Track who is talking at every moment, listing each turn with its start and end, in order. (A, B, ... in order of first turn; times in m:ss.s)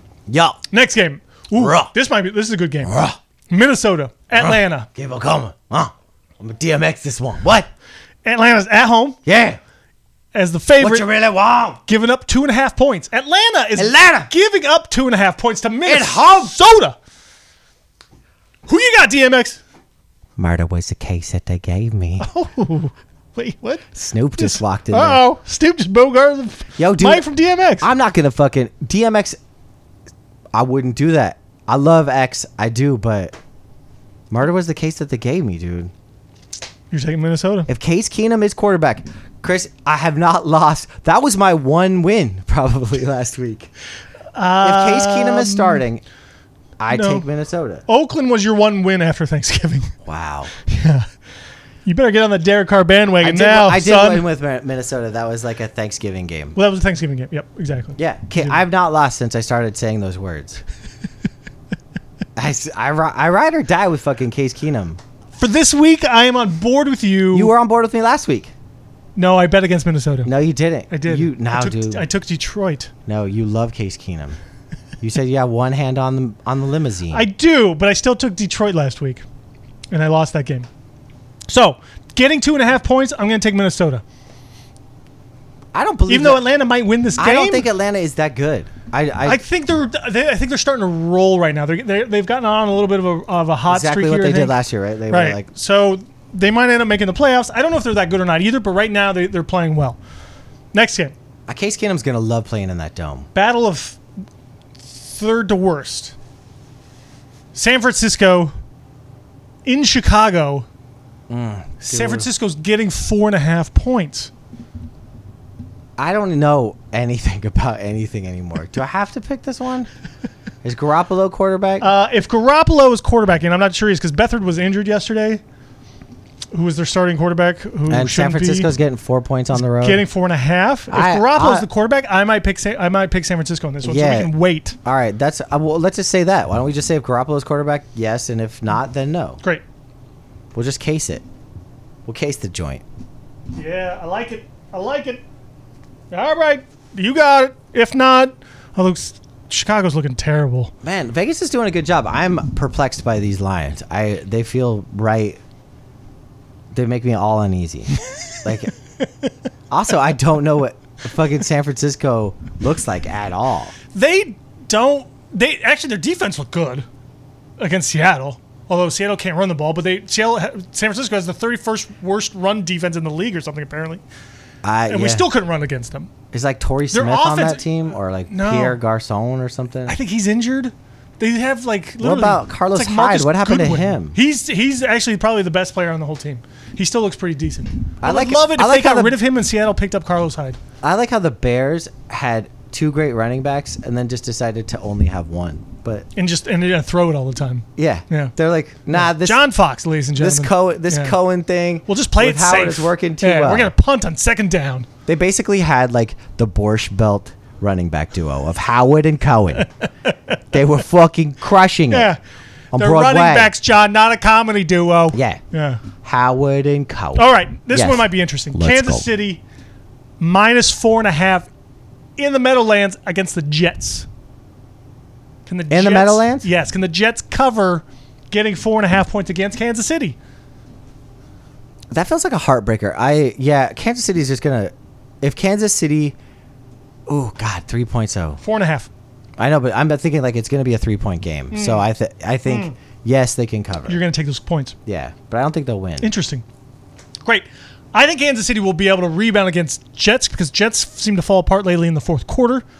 0:00.3-0:00.6 A
0:00.7-0:03.0 B
0:01.5-0:01.9 A
0:02.8-0:03.2 A
0:03.5-0:04.9 B
0:04.3-0:07.7 A
0:08.2-0:09.2 B
0:09.2-0:09.6 A
0:10.3-0:11.1 B
0:10.8-0:11.8 A
0:11.9-0:17.0 B
0:13.8-0:14.3 A
0:15.8-0:16.6 A
0:18.7-0:19.6 B
0:20.4-0:22.3 A
0:22.2-0:27.9 B
0:23.9-0:25.2 A
0:26.8-0:27.2 A
0:27.8-0:29.4 A
0:30.5-0:33.4 A
0:34.3-0:35.9 A
0:36.9-0:37.7 B
0:37.7-0:43.7 A
0:44.3-0:45.8 B
0:44.6-0:46.0 A
0:46.8-0:47.8 A
0:46.9-0:47.2 B
0:47.9-0:49.9 B
0:50.0-0:50.5 A
0:50.6-0:51.1 B
0:51.8-0:54.2 B
0:53.2-0:56.5 A
0:56.5-0:58.6 B
0:58.0-1:00.6 A
1:02.4-1:05.0 A
1:05.4-1:07.5 B
1:07.3-1:08.5 A
1:09.2-1:10.3 B
1:10.2-1:12.0 A
1:10.9-1:12.9 B
1:13.1-1:14.4 A
1:15.0-1:17.2 A
1:17.1-1:19.2 B
1:19.9-1:20.7 B
1:21.5-1:24.0 B
1:25.7-1:26.4 A
1:26.1-1:27.7 B
1:27.2-1:29.4 A
1:29.2-1:34.6 B
1:33.7-1:35.4 A
1:35.1-1:40.0 B
1:40.7-1:41.1 B
1:41.5-1:43.3 A
1:43.3-1:44.0 B
1:44.8-1:46.1 B
1:47.5-1:48.5 B
1:49.6-1:50.7 B
1:51.3-1:52.3 A
1:51.8-1:54.3 B
1:56.0-1:59.9 A
2:00.6-2:01.9 A
2:01.8-2:05.4 B
2:06.5-2:08.7 B
2:07.9-2:10.0 A
2:09.6-2:14.8 B
2:10.9-2:11.7 A
2:13.8-2:14.3 A
2:14.8-2:19.4 A
2:20.5-2:21.2 A
2:22.0-2:22.8 A
2:23.5-2:25.2 B
2:26.1-2:30.7 B
2:30.8-2:35.4 A
2:36.7-2:38.7 A
2:38.1-2:38.4 B
2:39.7-2:43.7 A
2:43.9-2:46.8 B
2:47.6-2:54.0 B
2:54.6-2:55.2 A
2:54.9-2:56.1 B
2:56.3-3:00.0 A
2:56.9-2:57.6 B
2:58.3-2:58.8 B
2:59.9-3:10.6 B
3:02.0-3:04.1 A
3:08.0-3:09.2 A
3:10.8-3:16.0 A
3:16.1-3:18.3 B
3:17.8-3:19.4 A
3:18.9-3:21.2 B
3:20.2-3:23.7 A
3:21.9-3:24.9 B
3:25.0-3:29.7 A
3:29.6-3:30.4 B
3:30.5-3:32.1 A
3:31.9-3:32.2 B
3:32.7-3:33.5 A
3:32.7-3:35.8 B
3:35.1-3:35.4 A
3:36.0-3:39.0 A
3:37.2-3:39.4 B
3:40.2-3:41.5 B
3:42.2-3:44.1 B
3:45.5-3:50.2 B
3:45.7-3:46.5 A
3:51.9-3:56.2 A
3:57.1-3:58.4 A
3:58.4-3:58.9 B
3:59.4-4:04.0 A
4:01.5-4:01.8 B
4:02.4-4:02.7 B
4:03.9-4:04.8 B
4:04.8-4:06.1 A
4:06.0-4:06.4 B
4:07.2-4:12.6 B